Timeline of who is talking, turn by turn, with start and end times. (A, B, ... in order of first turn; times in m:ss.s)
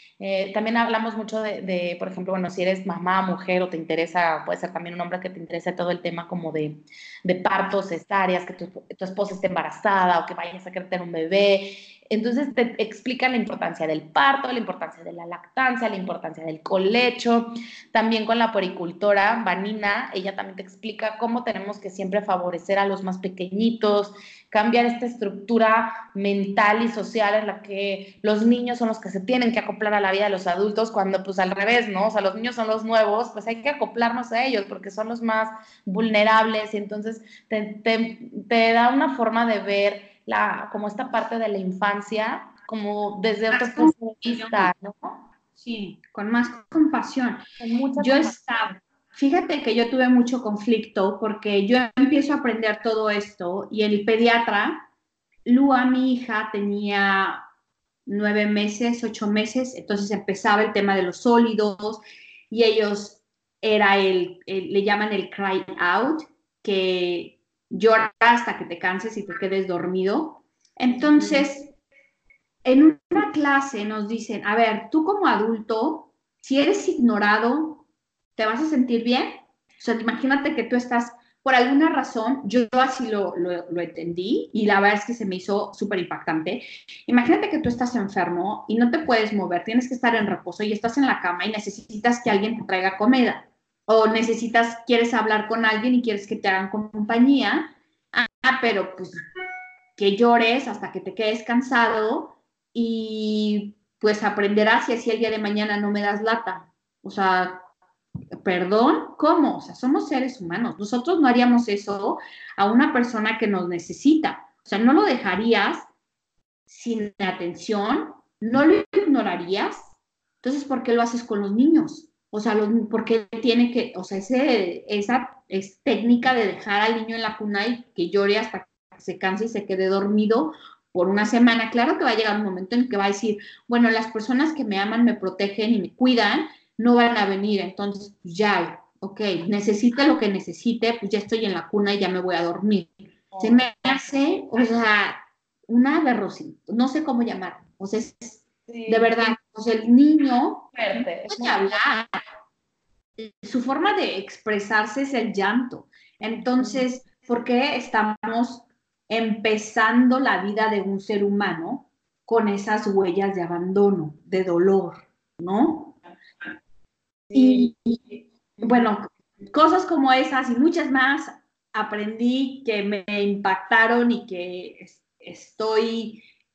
0:00.2-0:45.2 A
0:43.5-0:44.7 B
0:45.6-0:47.4 B
0:47.6-0:48.4 A
0:48.0-0:54.9 B
0:55.4-0:57.4 B
0:58.0-1:11.7 B
1:10.9-1:11.5 A
1:12.6-1:17.8 B
1:18.4-1:39.2 B
1:40.0-1:47.6 B
1:48.4-1:55.9 B
1:56.7-2:32.1 B
2:23.3-2:23.7 A
2:28.7-2:29.4 A
2:30.7-2:31.8 A
2:33.2-2:46.0 B
2:36.3-2:36.8 A
2:47.3-2:47.7 A
2:47.3-2:56.2 B